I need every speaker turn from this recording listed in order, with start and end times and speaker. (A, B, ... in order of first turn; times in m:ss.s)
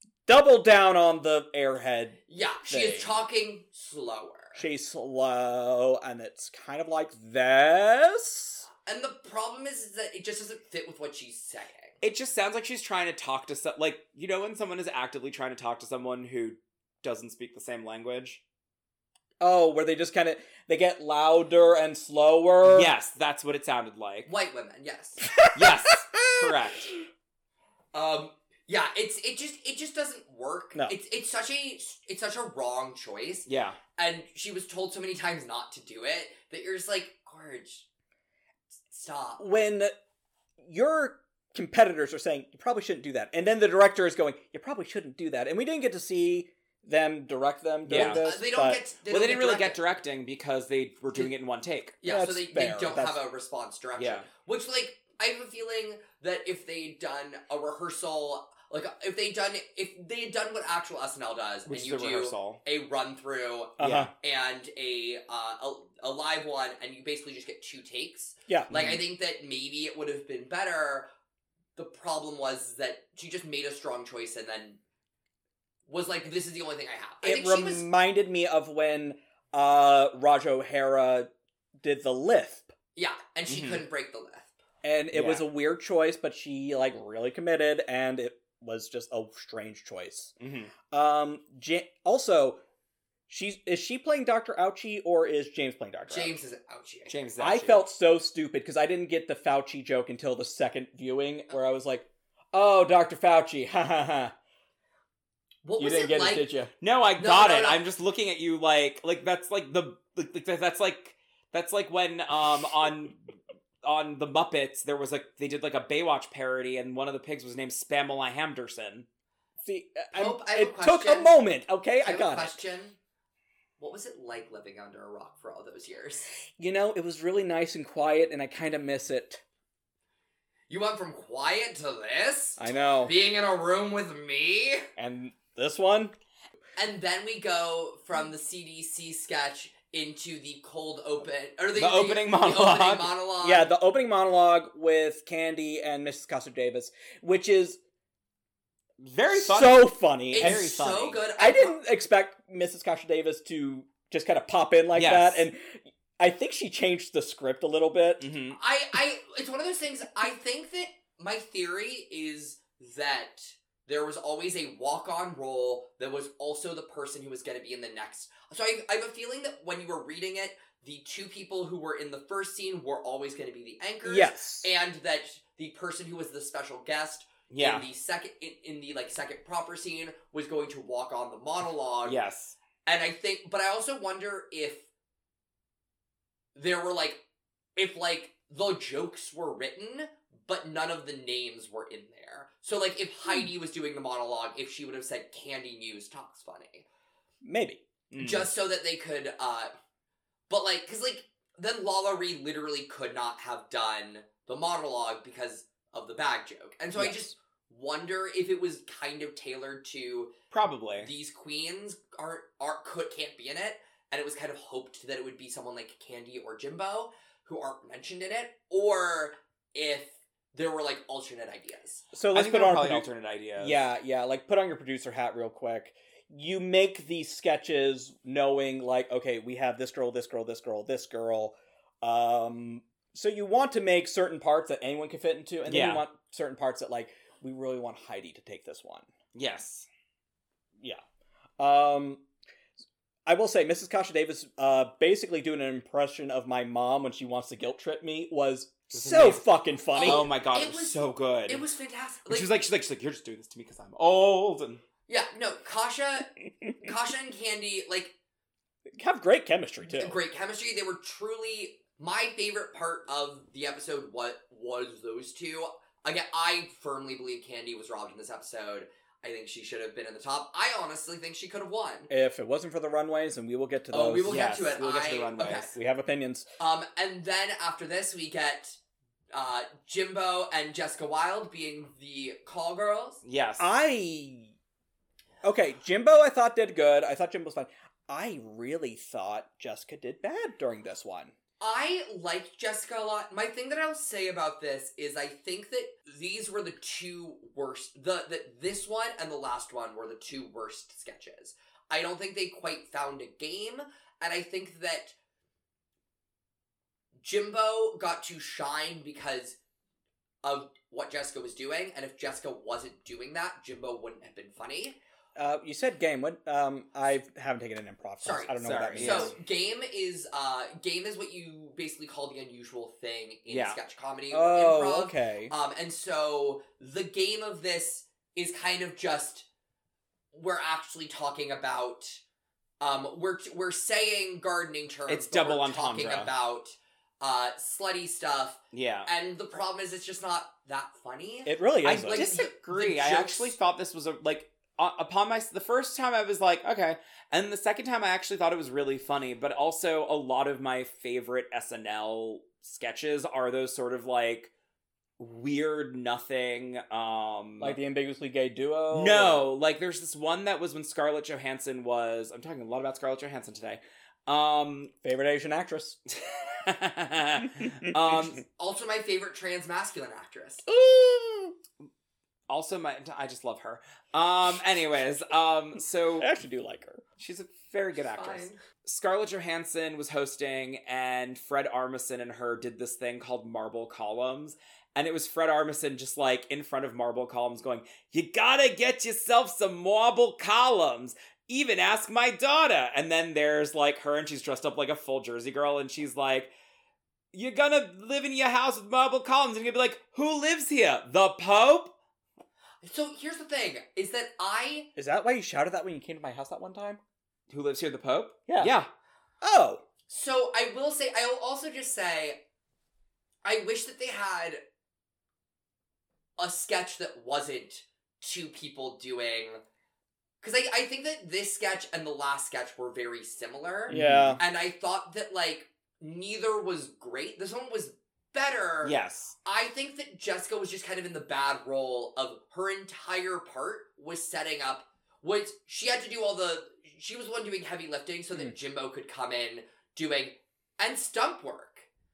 0:00.3-0:03.2 A
0:02.3-0:04.6 B
0:04.6-0:08.7 A
0:08.8-0:12.0 B
0:12.0-0:18.4 C
0:19.4-0:22.9 A
0:22.6-0:24.3 C
0:24.3-0:25.3 B
0:25.4-0:26.5 A
0:25.5-0:26.9 C
0:27.9-0:37.9 B
0:33.5-0:33.8 C
0:38.9-0:39.4 B
0:39.4-0:40.0 A
0:40.6-0:48.8 A
0:47.9-0:48.2 C
0:47.9-0:49.8 B
0:49.1-0:52.0 C
0:52.0-1:11.1 B
0:52.0-0:53.2 A
0:54.0-0:54.3 C
1:01.7-1:02.6 C
1:03.8-1:04.1 A
1:03.8-1:04.1 C
1:08.5-1:09.0 A
1:11.8-1:14.8 B
1:15.9-1:17.9 B
1:17.2-1:21.3 A
1:21.8-1:22.7 A
1:23.0-1:24.5 B
1:23.5-1:23.8 C
1:24.8-1:30.4 A
1:25.1-1:25.5 C
1:30.4-1:30.7 C
1:30.9-1:32.6 A
1:33.3-1:36.4 A
1:36.1-1:37.2 B
1:37.1-1:37.8 C
1:37.4-1:44.3 A
1:45.6-1:46.5 B
1:45.8-1:46.7 A
1:46.8-1:53.3 C
1:47.2-1:47.8 B
1:53.8-1:59.1 C
1:59.6-2:02.6 A
2:00.1-2:01.4 B
2:02.0-2:03.0 B
2:03.8-2:06.3 B
2:06.6-2:09.4 A
2:10.7-2:14.9 B
2:12.6-2:13.1 A
2:15.0-2:16.1 A
2:16.8-2:23.7 B
2:21.8-2:23.1 C
2:23.4-2:27.8 A
2:29.0-2:31.2 C
2:29.3-2:38.4 A
2:30.3-2:31.8 B
2:34.9-2:35.5 C
2:38.2-2:38.6 C
2:38.6-3:02.2 B
2:54.0-2:54.7 A
2:57.5-2:57.9 C
3:02.0-3:02.6 C
3:02.8-3:04.9 B
3:06.6-3:07.2 B
3:07.8-3:16.8 B
3:17.4-3:17.8 A
3:18.1-3:18.5 C
3:18.2-3:19.7 B
3:20.5-3:30.3 B
3:27.0-3:27.3 A
3:30.5-3:31.1 C
3:31.0-3:42.1 B
3:42.1-3:59.1 A
3:42.3-3:43.9 C
3:55.7-3:56.0 C
3:59.3-3:59.9 C
4:01.6-4:02.2 A
4:03.3-4:10.2 A
4:08.9-4:09.4 C
4:10.0-4:12.6 B
4:10.0-4:11.7 C
4:12.3-4:14.8 C
4:15.1-4:18.1 B
4:19.0-4:20.2 A
4:19.8-4:32.1 B
4:32.1-4:34.4 A
4:33.9-4:35.8 B
4:34.3-4:35.7 C
4:35.7-4:36.5 A
4:36.6-4:38.8 B
4:39.3-4:43.2 B
4:43.2-4:43.7 C
4:43.6-4:44.5 A
4:45.4-4:51.3 A
4:51.6-5:05.2 B
5:07.2-5:09.6 B
5:10.4-5:15.0 B
5:15.4-5:19.3 A
5:18.2-5:29.5 B
5:18.6-5:19.3 C
5:23.5-5:23.8 C
5:24.3-5:25.5 A
5:30.3-5:32.2 B
5:32.8-5:43.5 B
5:35.1-5:36.3 C
5:38.7-5:39.1 C
5:41.5-5:42.2 A
5:41.8-5:54.5 C
5:55.2-5:57.8 C
5:57.6-5:59.4 A
5:58.9-6:04.9 C
6:05.0-6:06.0 A
6:06.6-6:08.4 C
6:08.6-6:10.7 B
6:10.7-6:11.6 A
6:12.5-6:16.3 C
6:16.2-6:17.0 A
6:17.2-6:36.5 C
6:18.1-6:18.6 B
6:37.3-6:42.0 C
6:42.8-6:44.9 B
6:45.0-6:47.0 A
6:47.5-6:48.9 C
6:48.5-6:48.8 A
6:49.4-6:49.8 A
6:50.1-6:52.4 B
6:53.4-6:54.6 B
6:56.4-6:59.6 B
7:00.4-7:21.9 B
7:03.9-7:04.4 C
7:03.9-7:04.4 A
7:08.8-7:09.4 C